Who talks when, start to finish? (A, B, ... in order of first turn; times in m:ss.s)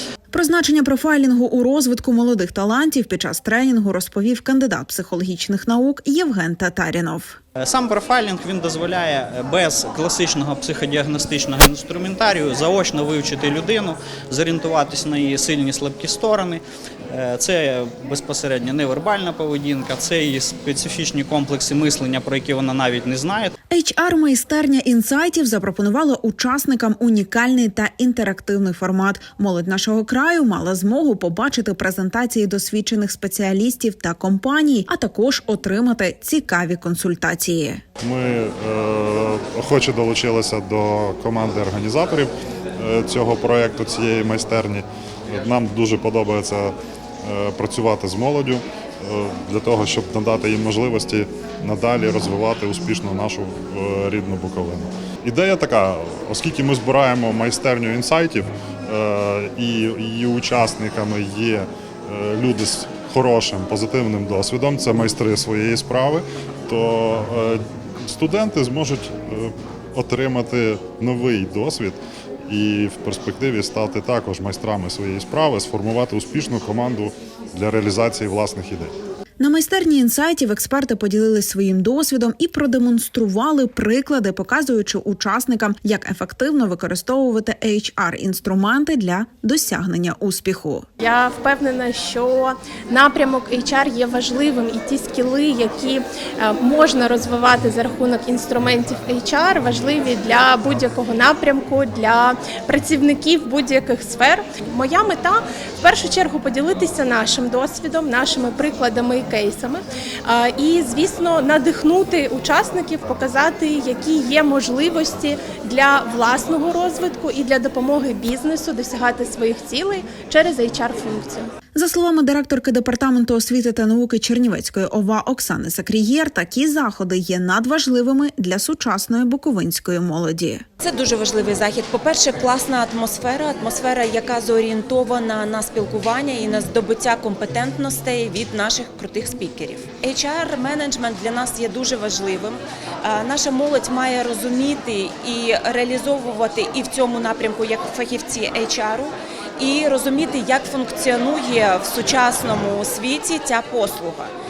0:00.3-0:07.4 A
0:07.6-0:23.5 B
0:23.7-0:37.8 A
0:38.0-1:18.9 C
1:19.4-1:30.9 A
1:31.0-2:01.5 D
2:01.8-2:10.6 A
2:10.8-2:34.3 E